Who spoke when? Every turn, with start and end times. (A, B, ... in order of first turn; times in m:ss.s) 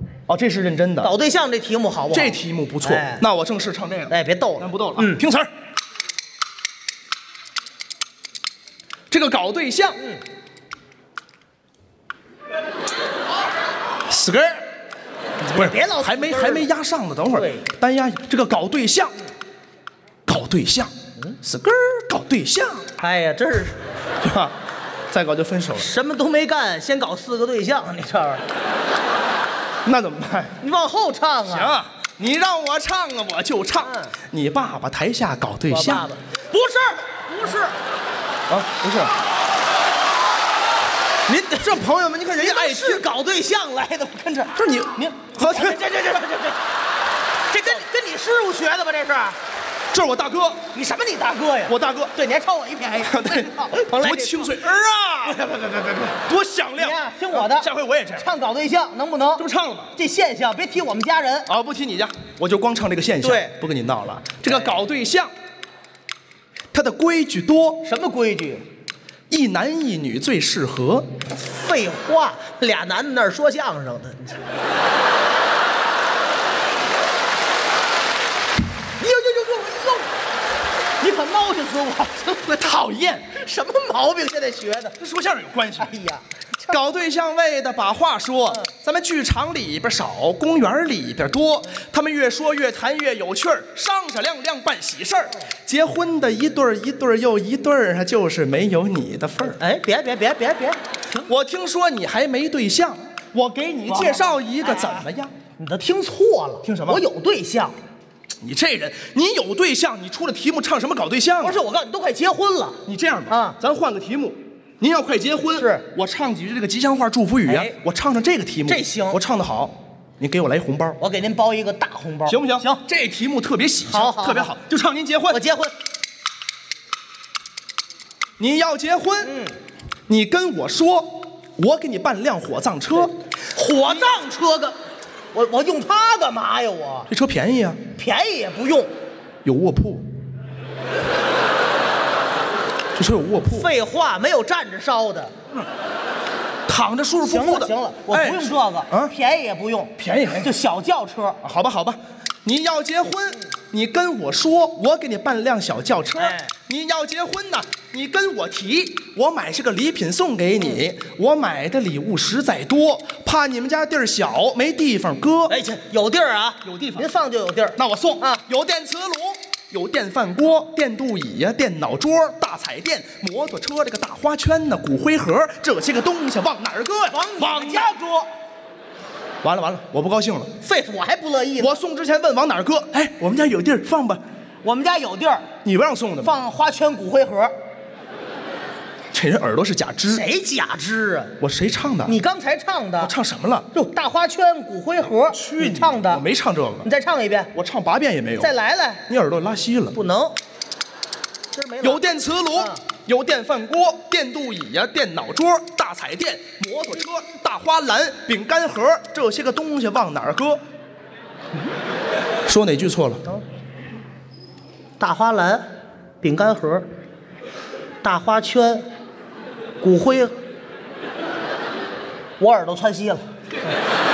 0:00.3-0:01.1 A
0:01.0-0:03.2 B
0:02.1-0:05.5 A
0:04.1-0:05.2 B
0:09.1-0:10.0 A
0:14.1-0:14.6 A
0:15.5-0:16.7 B
0:15.5-0:19.2 A
0:17.3-0:17.6 B
0:20.2-0:22.9 A
0:23.0-0:23.8 B
0:24.2-0:24.6 A
0:25.1-0:25.9 A
0:25.7-0:28.4 B
0:29.8-0:30.5 A
0:30.6-0:31.8 B
0:31.5-0:36.1 A
0:33.8-0:34.1 B
0:35.7-0:37.7 B
0:38.5-0:39.1 A
0:41.3-0:43.0 A
0:42.4-0:46.6 B
0:44.6-0:45.8 A
0:47.5-0:49.4 B
0:49.9-0:50.6 A
0:50.7-0:54.6 B
0:51.7-0:52.1 A
0:53.1-0:55.4 A
0:55.2-0:56.1 B
0:56.2-0:58.3 A
0:56.8-1:01.5 B
0:59.4-0:59.9 A
1:01.5-1:05.3 A
1:03.2-1:03.6 B
1:04.5-1:04.8 B
1:06.7-1:07.8 A
1:07.8-1:08.6 B
1:09.3-1:11.1 A
1:11.3-1:14.3 B
1:19.0-1:20.1 B
1:21.0-1:22.6 B
1:22.4-1:23.2 A
1:23.2-1:25.0 B
1:25.0-1:26.0 A
1:25.8-1:26.8 B
1:26.7-1:39.6 A
1:39.5-1:40.8 B
1:41.2-1:45.3 A
1:43.9-1:45.0 B
1:45.6-1:47.8 B
1:46.6-1:47.0 A
1:48.4-1:51.6 A
1:51.4-1:53.6 B
1:52.8-2:01.0 A
1:55.6-1:55.8 B
1:57.4-1:57.8 B
1:58.7-1:59.2 B
2:01.0-2:02.8 B
2:02.3-2:05.4 A
2:03.9-2:04.5 B
2:05.3-2:05.7 B
2:08.4-2:09.3 A
2:09.2-2:09.5 B
2:10.1-2:13.1 A
2:13.0-2:14.8 B
2:15.3-2:17.1 B
2:17.1-2:17.8 A
2:17.9-2:18.9 B
2:19.4-2:20.1 A
2:23.0-2:23.7 A
2:23.4-2:25.3 B
2:26.7-2:29.1 A
2:27.2-2:31.4 B
2:30.0-2:30.5 A
2:31.4-2:45.6 A
2:36.2-2:36.5 B
2:45.5-2:48.4 B
2:46.6-2:47.1 A
2:47.8-2:57.9 A
2:57.1-2:58.3 B
2:59.4-3:00.5 A
3:00.6-3:01.8 B
3:01.6-3:04.2 A
3:04.6-3:05.5 B
3:05.6-3:06.3 A
3:06.2-3:07.5 B
3:09.1-3:10.2 A
3:10.1-3:11.3 B
3:11.4-3:12.1 A
3:12.0-3:13.1 B
3:13.0-3:13.7 A
3:13.7-3:16.2 B
3:15.3-3:16.9 A
3:16.8-3:17.5 B
3:17.5-3:18.5 A
3:18.4-3:19.0 B
3:19.1-3:20.0 A
3:19.9-3:20.4 B
3:21.5-3:22.8 B
3:21.8-3:30.6 A
3:32.4-3:33.2 A
3:35.0-3:35.7 B
3:36.2-3:36.9 B
3:38.0-3:38.9 B
3:39.8-3:40.4 B
3:42.4-3:43.2 B